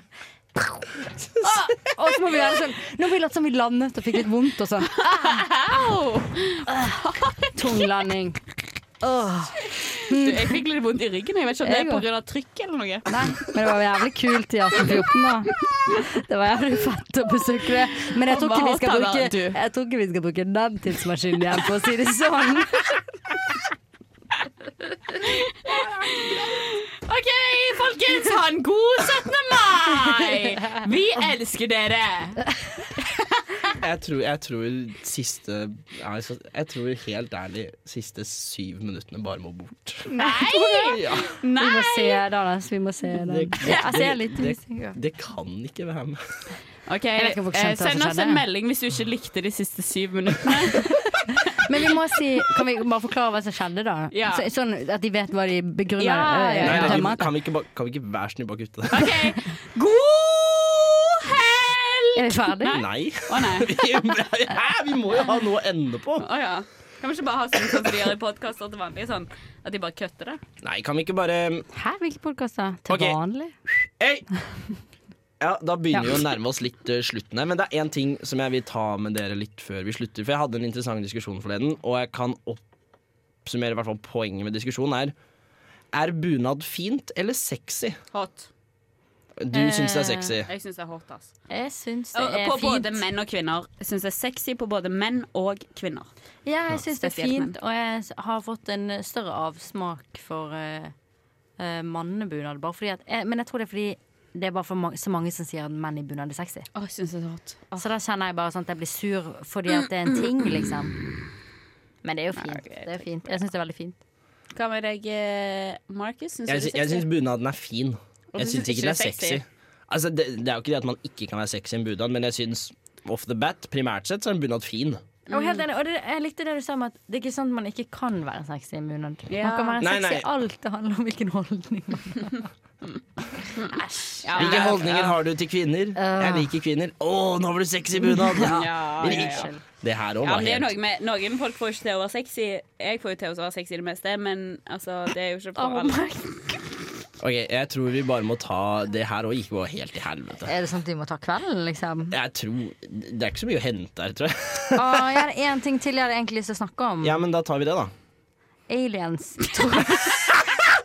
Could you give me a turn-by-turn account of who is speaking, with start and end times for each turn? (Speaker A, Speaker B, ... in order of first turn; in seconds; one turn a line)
Speaker A: 1.4-5.9
Speaker B: 5.0-7.8
Speaker A: 6.7-7.0
Speaker A: 7.5-8.4
Speaker A: 9.0-10.6
Speaker B: 9.7-13.5
Speaker A: 11.6-12.0
Speaker A: 13.1-23.0
Speaker B: 18.1-19.6
Speaker B: 25.2-32.4
Speaker C: 33.8-40.1
Speaker B: 40.1-42.2
Speaker A: 40.2-41.0
Speaker C: 40.8-41.3
Speaker A: 41.5-45.0
Speaker C: 43.1-46.2
Speaker B: 46.9-51.1
Speaker A: 47.2-48.4
Speaker A: 51.6-57.3
Speaker B: 54.1-54.4
Speaker B: 56.0-57.0
Speaker C: 56.6-59.0
Speaker B: 58.9-63.8
Speaker A: 62.1-62.8
Speaker C: 62.7-66.2
Speaker B: 66.2-70.4
Speaker C: 70.6-71.7
Speaker A: 71.7-73.5
Speaker C: 72.9-73.2
Speaker C: 74.0-74.2
Speaker C: 75.4-82.6
Speaker C: 83.4-85.1
Speaker C: 85.9-88.0
Speaker B: 88.1-88.5
Speaker C: 89.4-90.5
Speaker A: 89.5-90.3
Speaker B: 90.4-91.3
Speaker A: 91.5-93.0
Speaker B: 92.1-96.1
Speaker A: 96.5-100.9
Speaker B: 96.9-97.5
Speaker A: 101.6-106.7
Speaker B: 106.7-107.8
Speaker A: 107.7-111.0
Speaker A: 112.0-114.0
Speaker B: 112.4-112.9
Speaker B: 114.5-117.1
Speaker C: 116.5-125.0
Speaker B: 118.3-119.4
Speaker B: 125.3-125.6
Speaker A: 125.3-132.5
Speaker B: 129.3-129.8
Speaker C: 129.8-130.3
Speaker A: 133.7-134.8
Speaker B: 134.2-135.2
Speaker C: 134.3-140.7
Speaker A: 136.0-136.5
Speaker A: 138.1-139.6
Speaker B: 138.4-139.5
Speaker B: 140.2-146.0
Speaker A: 145.6-146.6
Speaker C: 147.2-150.5
Speaker A: 150.4-152.1
Speaker C: 152.1-155.2
Speaker A: 154.7-157.2
Speaker C: 157.0-157.9
Speaker A: 158.7-160.2